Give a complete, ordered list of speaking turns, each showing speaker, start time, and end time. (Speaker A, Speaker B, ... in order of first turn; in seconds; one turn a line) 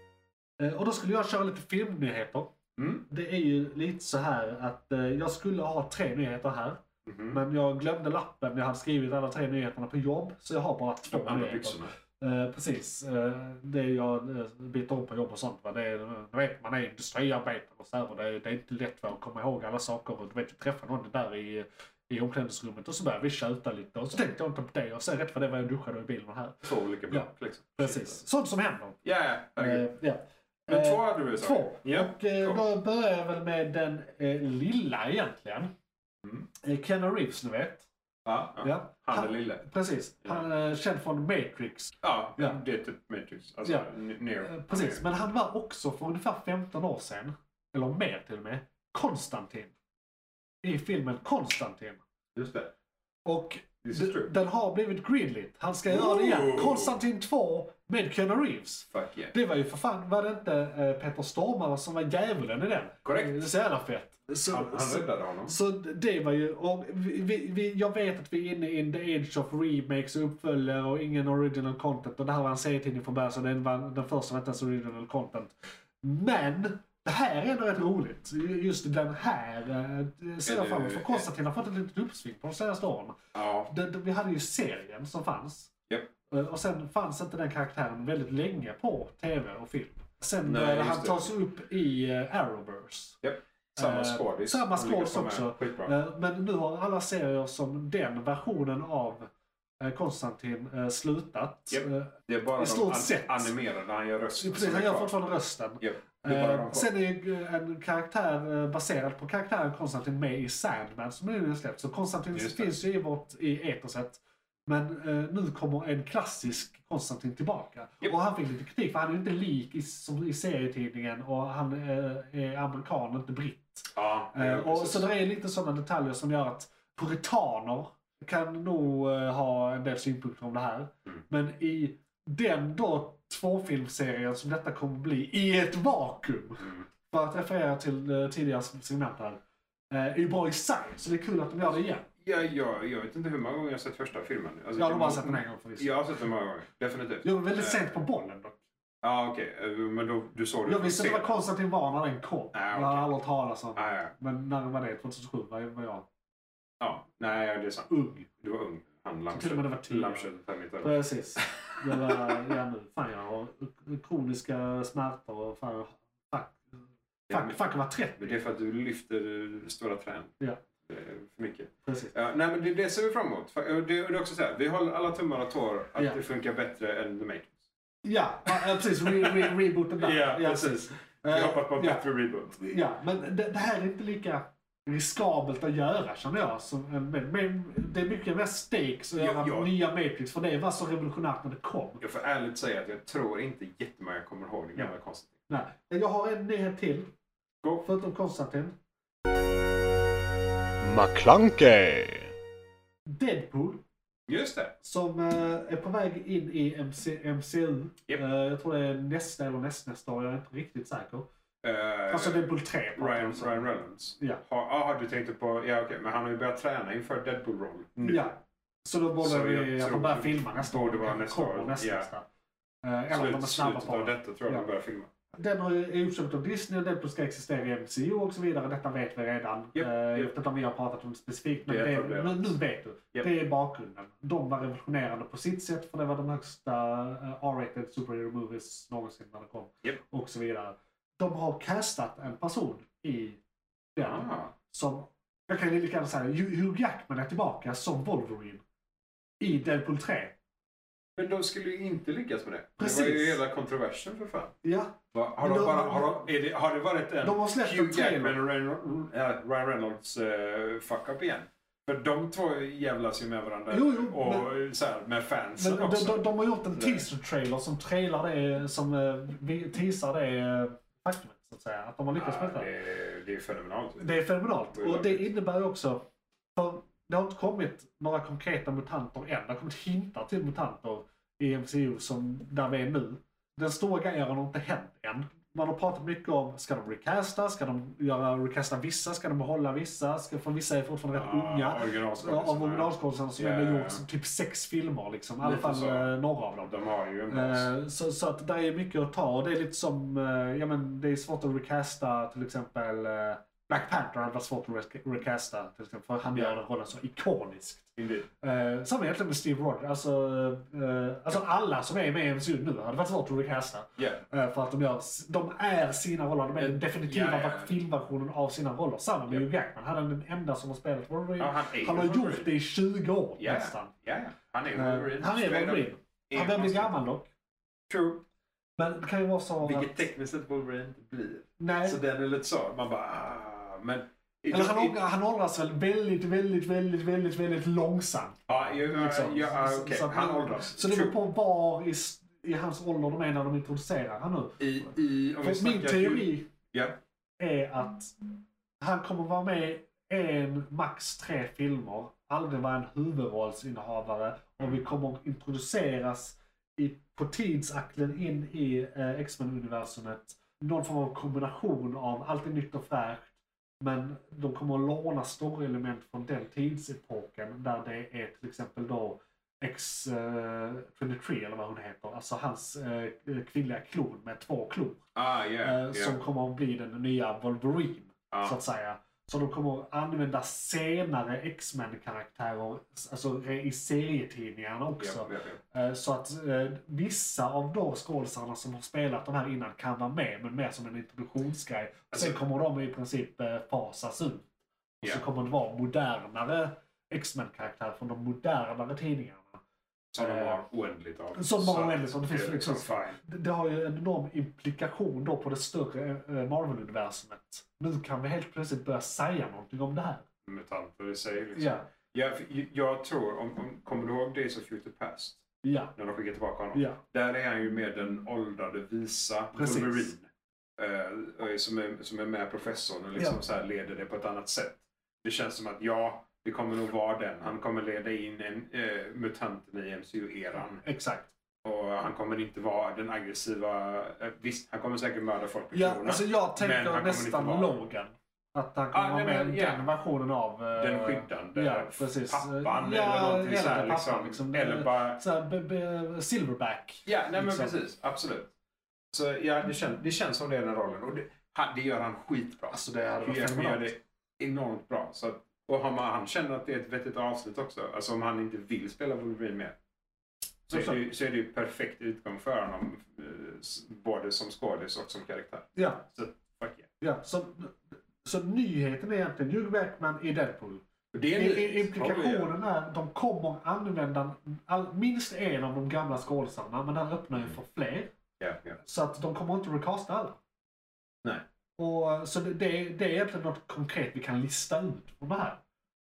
Speaker A: 0.6-2.5
Speaker B: 2.8-3.0
Speaker A: 3.1-29.0
Speaker B: 7.1-7.3
Speaker B: 11.1-11.8
Speaker B: 26.7-28.2
Speaker B: 29.1-29.8
Speaker A: 29.6-35.7
Speaker B: 30.7-32.6
Speaker A: 36.6-37.9
Speaker B: 38.3-39.6
Speaker A: 38.6-42.6
Speaker B: 42.2-44.9
Speaker A: 43.6-43.9
Speaker A: 44.4-49.7
Speaker A: 50.6-52.0
Speaker B: 52.4-52.7
Speaker A: 53.2-83.2
Speaker B: 53.8-54.3
Speaker B: 55.9-56.9
Speaker B: 58.9-59.3
Speaker B: 63.1-63.4
Speaker B: 64.5-65.5
Speaker B: 80.5-81.2
Speaker B: 83.3-83.7
Speaker A: 83.7-85.7
Speaker A: 86.3-93.2
Speaker B: 90.5-91.2
Speaker B: 93.2-95.9
Speaker A: 93.8-99.3
Speaker A: 99.8-103.5
Speaker B: 102.5-105.1
Speaker A: 104.4-139.4
Speaker B: 105.8-106.8
Speaker B: 112.4-112.7
Speaker B: 124.2-125.0
Speaker A: 139.9-142.1
Speaker B: 142.3-147.8
Speaker A: 144.8-146.1
Speaker A: 147.2-148.6
Speaker B: 149.0-151.3
Speaker A: 150.7-156.1
Speaker B: 152.8-153.1
Speaker B: 156.8-157.9
Speaker C: 156.9-157.6
Speaker A: 157.9-158.2
Speaker B: 158.4-160.9
Speaker C: 158.5-159.2
Speaker A: 159.3-160.3
Speaker A: 160.8-166.7
Speaker A: 167.3-168.4
Speaker B: 168.2-170.3
Speaker B: 170.9-177.6
Speaker A: 171.8-172.1
Speaker A: 178.0-182.0
Speaker B: 179.3-182.5
Speaker A: 182.5-192.0
Speaker B: 189.2-189.7
Speaker B: 192.0-195.2
Speaker A: 195.5-197.1
Speaker A: 197.8-198.8
Speaker C: 200.8-202.3
Speaker A: 203.1-203.8
Speaker B: 204.3-204.7
Speaker A: 204.8-211.3
Speaker B: 211.6-212.4
Speaker A: 212.1-213.7
Speaker B: 213.0-218.3
Speaker A: 218.0-222.2
Speaker B: 219.3-222.0
Speaker A: 222.8-224.7
Speaker B: 223.1-225.1
Speaker A: 225.3-243.4
Speaker B: 229.8-230.3
Speaker B: 231.7-232.5
Speaker A: 243.9-248.6
Speaker B: 244.0-244.5
Speaker A: 249.4-250.3
Speaker B: 251.2-254.5
Speaker A: 252.8-253.4
Speaker A: 254.6-256.2
Speaker B: 255.4-266.2
Speaker A: 257.2-258.4
Speaker A: 263.7-264.5
Speaker A: 265.6-272.7
Speaker B: 266.7-267.0
Speaker B: 272.2-274.2
Speaker A: 274.0-296.7
Speaker B: 274.8-275.3
Speaker B: 291.2-292.8
Speaker B: 293.4-294.0
Speaker B: 295.4-296.1
Speaker B: 296.7-297.7
Speaker A: 297.3-323.9
Speaker B: 308.0-308.2
Speaker B: 316.6-317.7
Speaker B: 321.4-322.4
Speaker B: 323.5-326.9
Speaker C: 324.1-324.6
Speaker A: 324.7-327.3
Speaker B: 327.9-328.2
Speaker A: 328.8-330.0
Speaker B: 329.6-335.0
Speaker A: 331.6-332.0
Speaker A: 334.5-346.5
Speaker C: 338.6-340.0
Speaker B: 340.0-341.1
Speaker B: 344.6-346.2
Speaker A: 347.4-348.1
Speaker A: 348.8-375.0
Speaker B: 375.4-376.0
Speaker A: 375.6-394.4
Speaker B: 385.0-385.6
Speaker A: 395.0-399.6
Speaker B: 400.1-403.2
Speaker A: 400.2-400.6
Speaker A: 401.4-410.2
Speaker B: 410.5-415.4
Speaker A: 411.5-411.9
Speaker A: 415.6-415.9
Speaker B: 416.0-420.2
Speaker A: 416.7-417.0
Speaker A: 419.5-420.1
Speaker B: 420.8-430.8
Speaker A: 430.8-431.3
Speaker B: 431.6-437.7
Speaker A: 435.7-447.7
Speaker C: 437.0-437.4
Speaker B: 438.9-439.8
Speaker B: 440.8-445.2
Speaker B: 447.1-448.5
Speaker B: 449.1-459.7
Speaker A: 452.7-453.9
Speaker A: 460.7-461.0
Speaker B: 460.7-466.9
Speaker A: 465.8-466.0
Speaker A: 467.0-470.8
Speaker B: 471.1-472.5
Speaker A: 471.3-478.1
Speaker B: 478.4-478.8
Speaker A: 478.8-480.4
Speaker A: 481.8-485.6